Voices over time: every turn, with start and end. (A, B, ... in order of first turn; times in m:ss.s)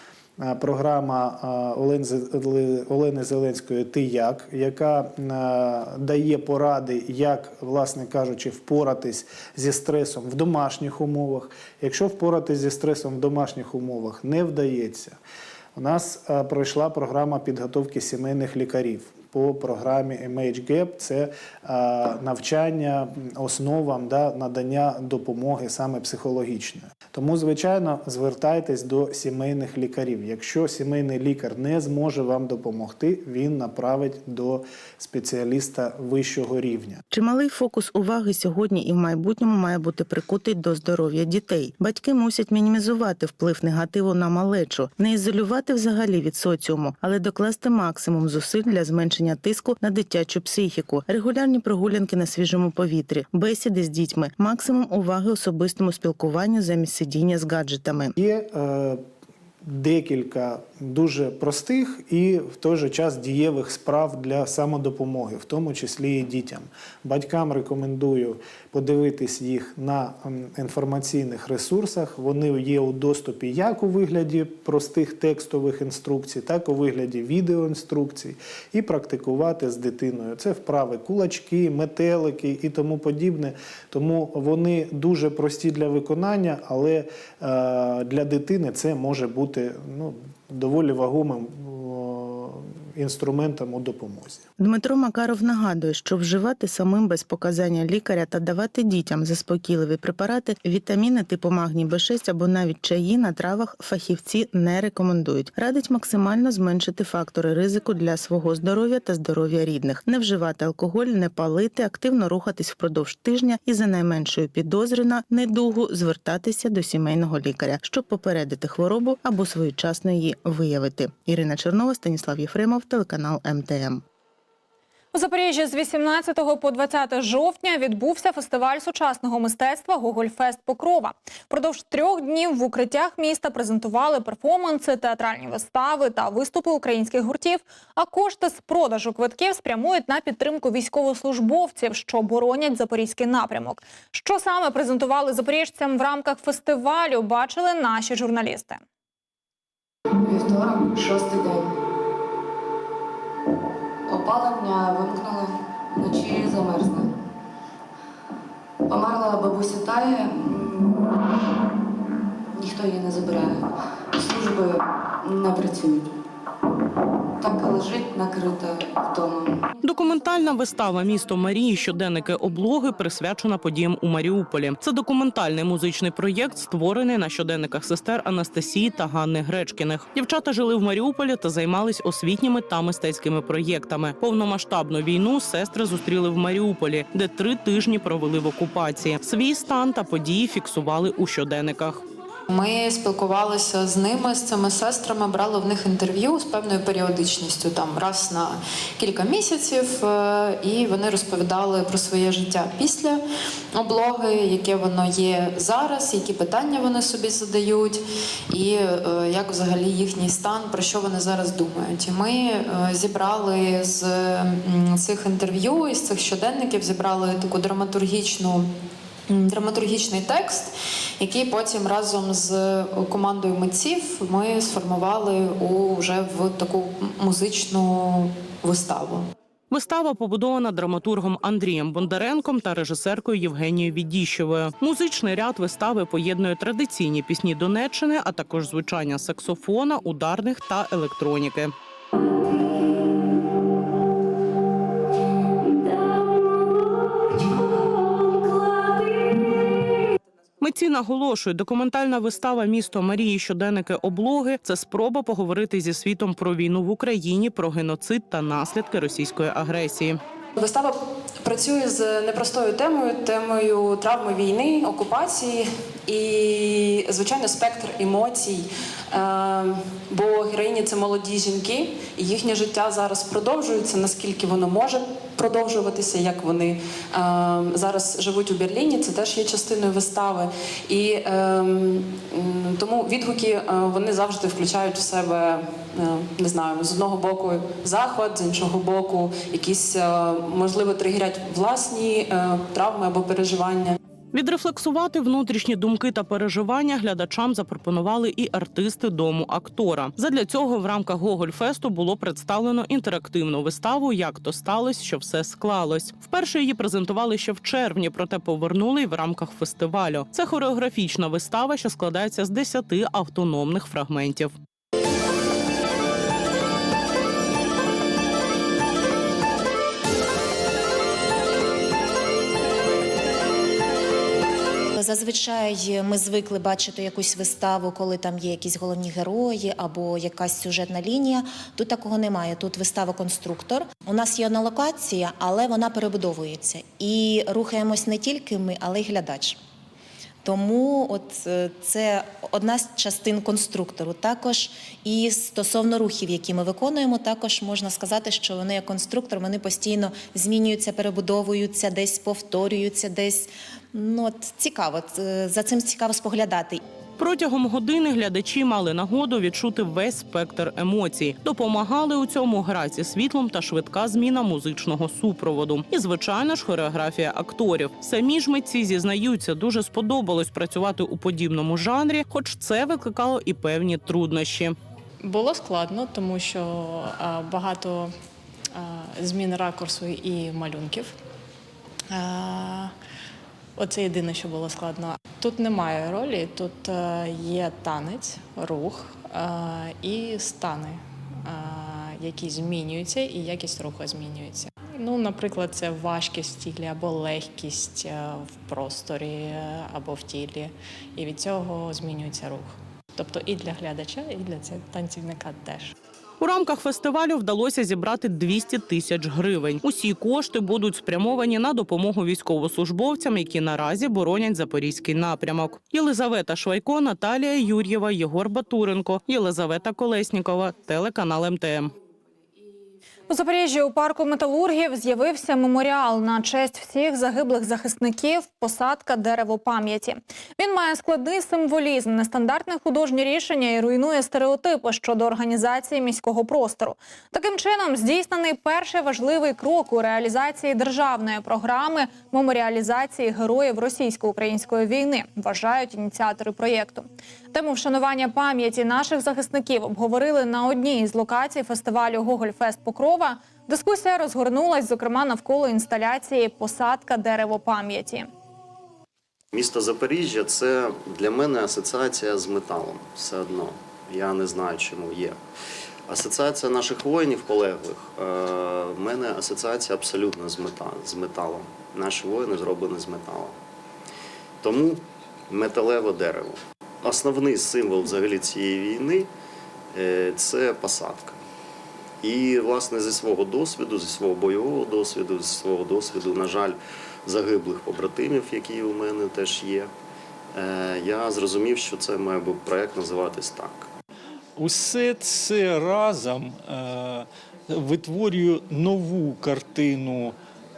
0:00.4-0:15.2 A
0:15.8-0:37.0 A
0:37.1-0:58.1 B
0:58.2-0:59.0 A
0:59.6-1:34.4 A
1:34.6-2:04.0 B
2:05.1-2:28.8 C
2:30.2-2:31.5 D
2:34.1-2:35.4 D
2:36.0-2:37.1 D
2:38.9-2:40.6 D
2:44.2-2:44.7 D
2:49.1-2:49.4 D
2:49.8-3:12.0 E
3:12.5-3:38.7 F
3:39.3-3:49.3 F
3:49.7-4:01.7 E
4:10.6-4:20.2 E
4:20.6-4:54.0 F
4:54.3-5:14.5 E
5:24.9-5:39.6 G
5:40.4-5:56.8 G
5:57.2-6:14.8 E
6:15.2-6:18.1 H
6:18.7-6:21.1 H
6:22.1-6:22.9 H
6:23.8-6:45.9 H
6:46.4-7:01.9 E
7:03.3-7:38.3 C
7:39.5-7:45.4 I
7:46.1-7:53.5 I
7:54.6-7:59.3 I
7:59.9-8:01.4 I
8:02.2-8:09.9 I
8:10.5-8:13.9 I
8:14.6-8:20.3 J